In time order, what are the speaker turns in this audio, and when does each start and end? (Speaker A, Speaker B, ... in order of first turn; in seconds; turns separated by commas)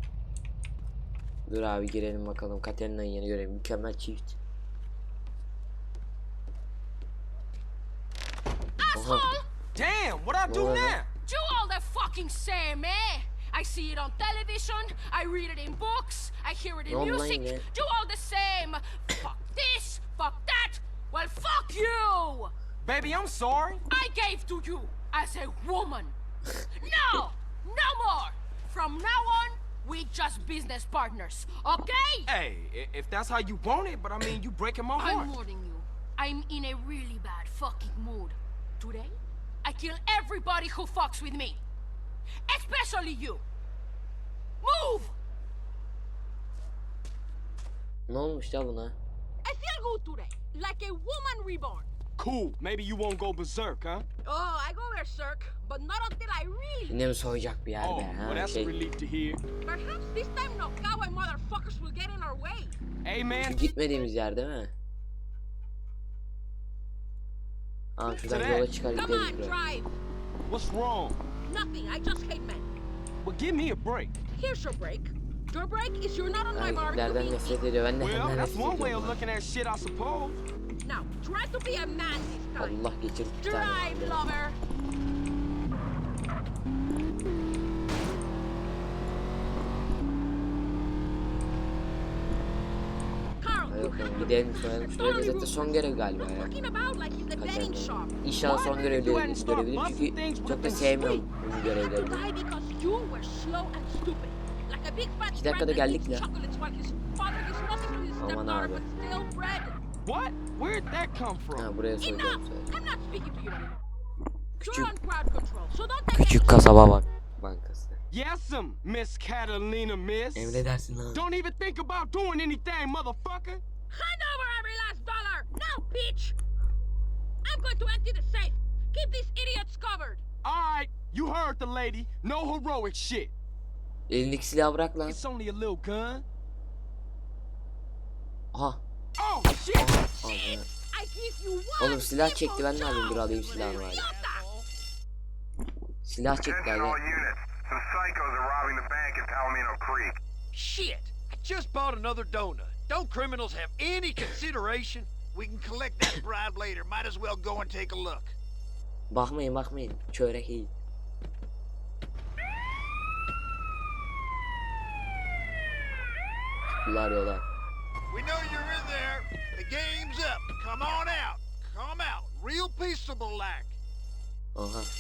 Speaker A: 1.4-4.4, Speaker B: 8.8-9.5, Speaker A: 8.9-9.3, Speaker C: 9.7-11.1, Speaker A: 10.5-11.0, Speaker B: 11.2-22.5, Speaker A: 16.9-17.6, Speaker C: 22.8-23.8, Speaker B: 23.9-26.1, Speaker B: 26.7-32.3, Speaker C: 32.3-35.3, Speaker B: 35.0-41.6, Speaker B: 42.5-43.4, Speaker B: 44.6-45.1, Speaker A: 48.1-49.0, Speaker B: 49.4-51.9, Speaker C: 52.2-54.0, Speaker B: 54.2-57.1, Speaker A: 56.9-58.7, Speaker C: 57.8-59.4, Speaker B: 59.6-62.8, Speaker C: 63.0-63.6, Speaker A: 63.3-64.7, Speaker A: 68.0-69.5, Speaker C: 68.2-68.7, Speaker B: 68.9-70.0, Speaker C: 70.5-71.2, Speaker B: 71.5-72.7, Speaker C: 73.2-74.1, Speaker B: 74.3-77.7, Speaker A: 76.5-79.2, Speaker C: 78.0-80.4, Speaker B: 80.8-82.8, Speaker A: 82.6-84.3, Speaker B: 83.4-84.6, Speaker B: 93.4-98.2, Speaker A: 93.7-96.5, Speaker A: 97.4-102.2, Speaker C: 98.4-101.3, Speaker B: 101.6-109.8, Speaker A: 105.3-106.2, Speaker A: 108.2-108.8, Speaker C: 110.0-111.7, Speaker A: 111.5-112.7, Speaker B: 112.0-113.8, Speaker A: 114.6-114.9, Speaker B: 114.6-116.7, Speaker A: 116.1-118.0, Speaker C: 118.1-123.6, Speaker A: 120.3-121.2, Speaker B: 123.9-126.3, Speaker B: 127.4-130.2, Speaker C: 130.4-133.3, Speaker A: 134.1-135.2, Speaker C: 135.0-136.2, Speaker A: 138.5-138.8, Speaker C: 139.2-140.0, Speaker A: 139.7-140.7, Speaker B: 140.2-144.4, Speaker A: 141.8-144.1, Speaker D: 143.1-144.7, Speaker A: 146.0-147.0, Speaker E: 146.4-150.2, Speaker D: 150.5-158.3, Speaker A: 159.1-160.7, Speaker A: 166.8-167.4, Speaker D: 168.1-173.8, Speaker A: 174.5-174.9